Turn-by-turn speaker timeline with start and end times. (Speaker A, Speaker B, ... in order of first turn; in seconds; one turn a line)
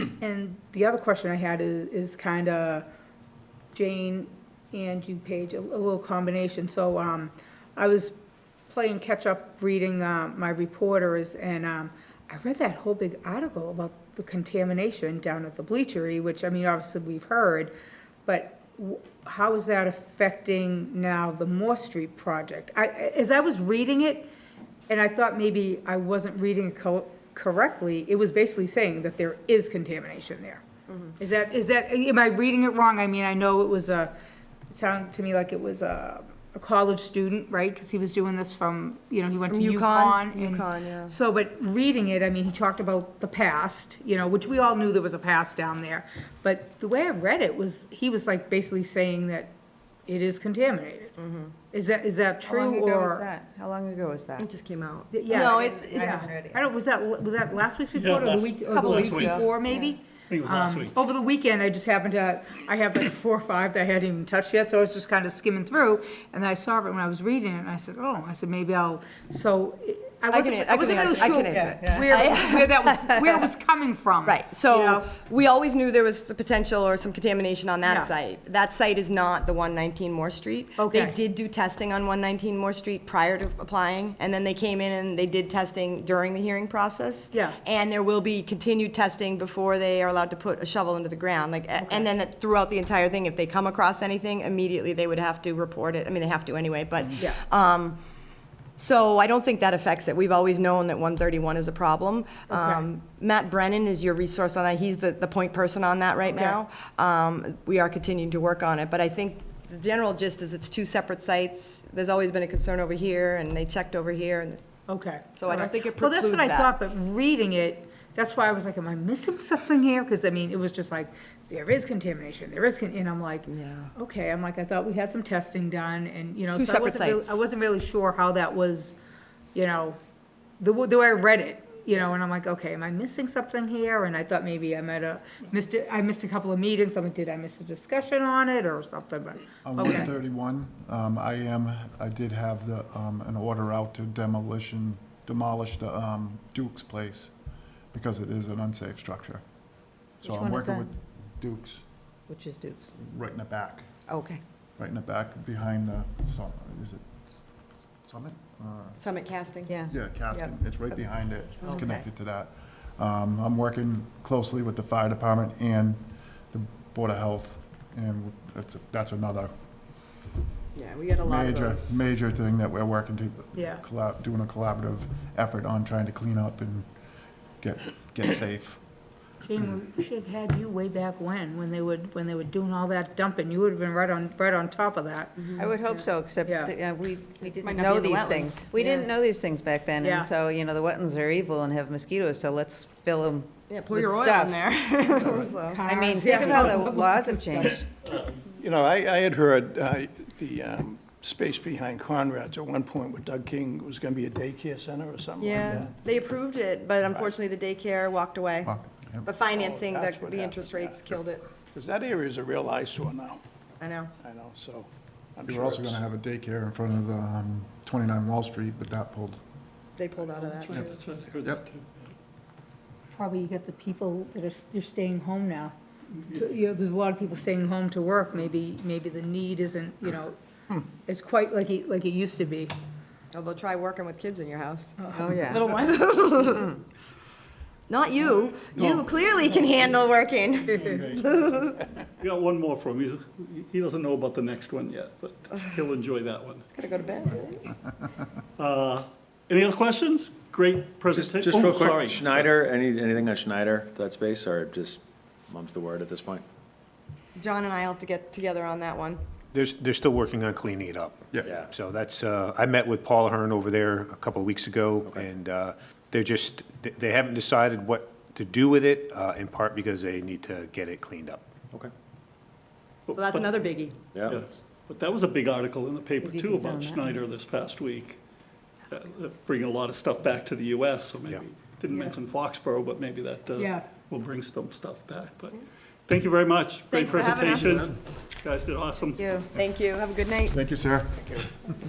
Speaker A: 0.2-2.9
Speaker A: 3.7-8.2
Speaker A: 8.7-17.7
Speaker A: 18.2-24.3
Speaker A: 24.9-30.6
Speaker B: 30.9-31.1
Speaker A: 31.2-34.1
Speaker A: 34.7-49.5
Speaker B: 39.5-41.1
Speaker A: 50.1-51.1
Speaker B: 51.2-51.5
Speaker A: 51.7-53.3
Speaker C: 52.4-54.5
Speaker B: 54.4-56.2
Speaker A: 55.1-75.1
Speaker C: 55.3-56.6
Speaker D: 57.9-59.5
Speaker B: 58.7-59.8
Speaker D: 60.3-60.9
Speaker B: 70.3-73.5
Speaker B: 74.2-98.0
Speaker A: 77.8-78.1
Speaker A: 80.8-81.2
Speaker A: 87.3-87.6
Speaker A: 91.8-92.1
Speaker B: 98.8-114.6
Speaker A: 102.5-102.8
Speaker A: 106.3-106.6
Speaker A: 114.9-128.9
Speaker B: 115.4-116.7
Speaker B: 123.5-123.9
Speaker B: 126.5-127.4
Speaker A: 129.5-130.0
Speaker A: 130.6-140.1
Speaker E: 139.6-147.3
Speaker E: 147.9-149.4
Speaker C: 150.2-150.9
Speaker E: 150.2-151.8
Speaker C: 152.3-152.9
Speaker E: 153.0-153.9
Speaker B: 154.1-154.4
Speaker E: 154.8-157.4
Speaker E: 158.0-159.0
Speaker B: 159.0-159.7
Speaker C: 159.7-160.5
Speaker E: 159.9-169.5
Speaker B: 161.6-162.0
Speaker B: 170.7-172.1
Speaker E: 171.2-176.8
Speaker A: 173.6-173.8
Speaker E: 177.6-178.8
Speaker A: 179.4-186.7
Speaker B: 185.4-185.7
Speaker C: 185.6-194.8
Speaker B: 187.6-188.9
Speaker A: 190.0-190.3
Speaker B: 193.7-196.8
Speaker A: 195.6-197.8
Speaker C: 195.9-197.8
Speaker F: 198.6-205.9
Speaker B: 205.4-208.7
Speaker E: 208.6-209.3
Speaker B: 209.2-211.5
Speaker F: 209.4-211.2
Speaker F: 211.7-213.4
Speaker B: 213.8-214.1
Speaker F: 214.2-216.0
Speaker E: 215.4-219.4
Speaker B: 220.0-221.0
Speaker D: 220.2-222.1
Speaker A: 223.1-225.7
Speaker A: 226.3-230.3
Speaker A: 231.1-232.7
Speaker B: 233.3-236.8
Speaker A: 235.0-235.5
Speaker C: 235.1-235.9
Speaker B: 237.9-241.8
Speaker D: 238.8-239.1
Speaker D: 240.7-241.2
Speaker D: 242.2-246.7
Speaker B: 246.7-247.7
Speaker D: 248.6-252.5
Speaker G: 251.1-256.4
Speaker B: 257.4-259.2
Speaker H: 259.5-271.4
Speaker D: 273.1-273.5
Speaker B: 273.1-273.9
Speaker G: 274.1-274.4
Speaker D: 274.2-278.2
Speaker C: 276.2-277.2
Speaker D: 278.9-289.2
Speaker A: 283.6-283.8
Speaker B: 286.9-287.9
Speaker E: 287.2-287.9
Speaker C: 289.2-289.5
Speaker B: 289.5-290.6
Speaker E: 290.5-291.4